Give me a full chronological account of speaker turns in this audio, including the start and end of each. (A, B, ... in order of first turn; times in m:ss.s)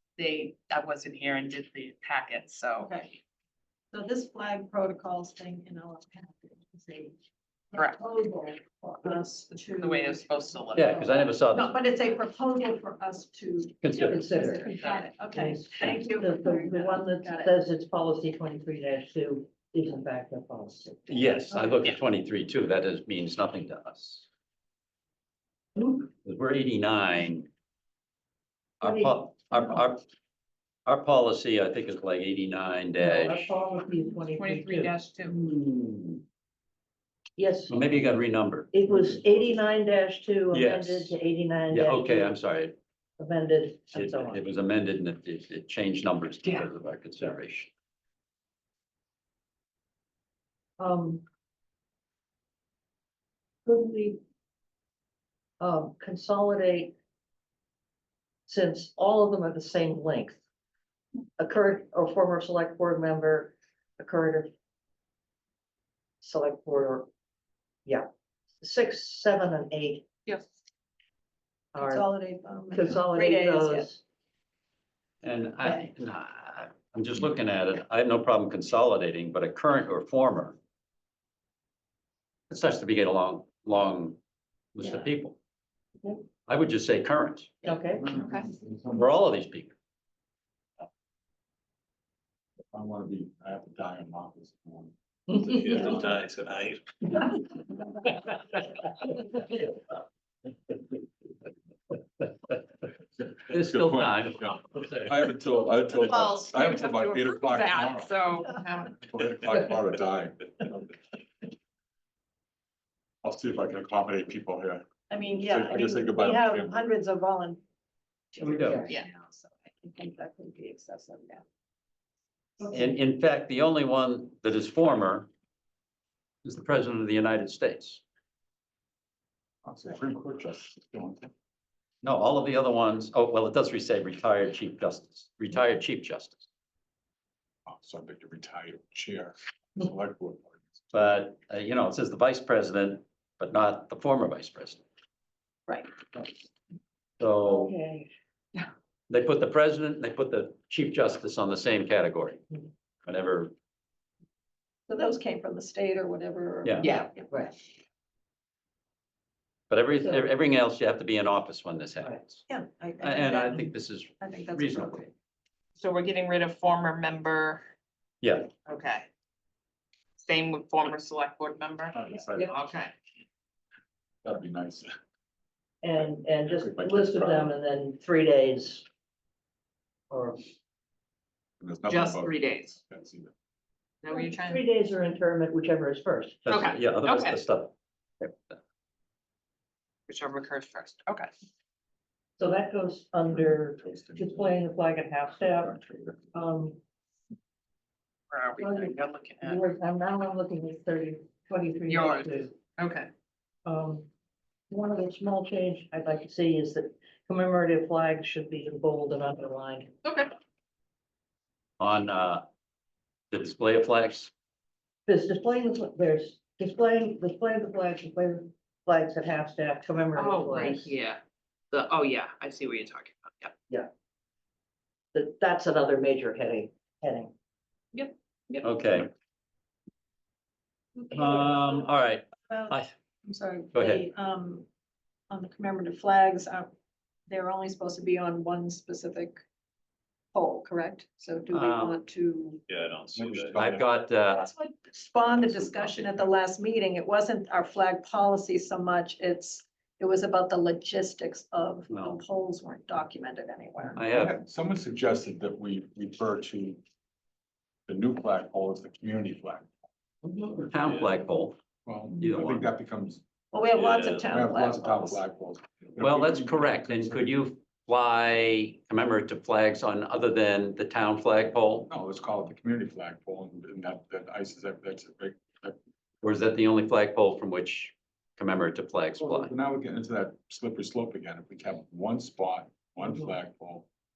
0:00.2-0:02.9 A
0:02.8-0:03.1 B
0:03.9-0:07.1 B
0:07.7-0:10.2 B
0:07.8-0:08.0 A
0:09.5-0:10.9 A
0:10.8-0:11.7 C
0:10.8-0:17.5 B
0:13.8-0:14.3 C
0:13.9-0:21.3 D
0:21.1-0:24.3 C
0:25.8-0:27.5 C
0:28.8-0:30.0 C
0:28.8-0:29.8 D
0:30.8-0:33.5 C
0:33.0-0:34.9 D
0:34.3-0:35.4 A
0:35.2-0:36.2 C
0:37.4-0:37.9 D
0:37.7-0:38.7 C
0:38.7-0:42.4 D
0:40.5-0:41.2 C
0:41.7-0:42.8 C
0:43.2-0:44.4 D
0:43.9-0:47.7 C
0:50.8-0:51.2 D
0:53.6-0:54.2 D
0:55.6-0:56.9 D
0:58.5-1:00.4 D
1:01.4-1:04.5 D
1:06.2-1:07.1 D
1:08.6-1:10.0 D
1:11.7-1:12.1 D
1:11.8-1:13.9 B
1:12.7-1:14.0 D
1:15.2-1:20.6 C
1:22.5-1:24.2 C
1:24.7-1:25.4 C
1:26.4-1:27.7 C
1:27.6-1:28.1 D
1:28.1-1:28.5 A
1:28.1-1:28.9 E
1:28.9-1:29.7 C
1:32.7-1:36.0 E
1:35.3-1:36.0 D
1:35.5-1:36.8 F
1:43.5-1:45.1 C
1:43.5-1:50.9 E
1:46.1-1:48.9 A
1:53.2-1:54.8 E
1:55.1-1:57.6 B
1:55.4-1:56.8 E
1:58.3-2:01.4 B
1:58.4-1:58.9 C
2:02.6-2:02.8 B
2:02.7-2:05.3 C
2:06.4-2:08.0 C
2:09.6-2:11.3 E
2:12.0-2:16.4 C
2:17.7-2:21.1 E
2:20.9-2:24.8 C
2:27.2-2:27.7 C
2:27.4-2:28.1 D
2:29.1-2:32.4 C
2:33.0-2:33.5 C
2:34.9-2:37.5 B
2:36.6-2:36.9 C
2:39.7-2:42.4 C
2:42.5-2:43.7 B
2:43.0-2:45.1 C
2:44.2-2:45.0 B
2:45.8-2:47.6 A
2:48.2-2:48.5 C
2:48.7-2:49.0 A
2:50.2-2:52.9 A
2:51.9-2:52.6 E
2:54.2-2:54.9 E
2:55.8-2:58.8 D
2:56.4-2:57.5 E
3:00.1-3:00.4 D
3:01.6-3:03.3 E
3:01.9-3:02.7 A
3:04.0-3:04.6 A
3:04.1-3:06.4 D
3:06.4-3:08.6 C
3:06.5-3:07.4 A
3:10.1-3:11.3 A
3:12.4-3:15.7 D
3:13.3-3:14.5 E
3:15.3-3:16.3 E
3:16.3-3:16.8 D
3:18.3-3:19.6 A
3:18.6-3:22.5 D
3:21.9-3:23.1 A
3:23.6-3:24.1 D
3:24.7-3:29.9 D
3:30.0-3:30.3 A
3:31.8-3:32.4 C
3:33.3-3:34.3 C
3:35.1-3:40.9 D
3:40.1-3:41.2 A
3:41.7-3:43.5 A
3:45.1-3:47.3 D
3:47.9-3:48.6 A
3:48.6-3:49.1 C
3:51.0-3:51.9 B
3:51.1-3:52.9 C
3:52.5-3:54.6 B
3:53.7-3:54.0 C
3:55.3-3:56.7 B
3:57.3-3:59.4 B
4:00.3-4:02.6 B
4:01.5-4:02.0 C
4:02.7-4:03.8 F
4:03.1-4:03.8 E
4:03.6-4:04.5 C
4:04.3-4:14.0 B
4:05.4-4:06.3 E
4:11.9-4:12.2 C
4:13.9-4:14.3 C
4:14.1-4:16.8 E
4:17.9-4:19.7 E
4:20.2-4:20.6 D
4:20.6-4:21.6 C
4:20.8-4:21.1 F
4:21.8-4:23.2 E
4:22.2-4:22.7 C
4:23.5-4:25.2 B
4:23.7-4:24.3 F
4:24.2-4:27.3 E
4:26.0-4:31.9 C
4:31.9-4:35.8 E
4:36.2-4:39.5 C
4:39.2-4:43.9 E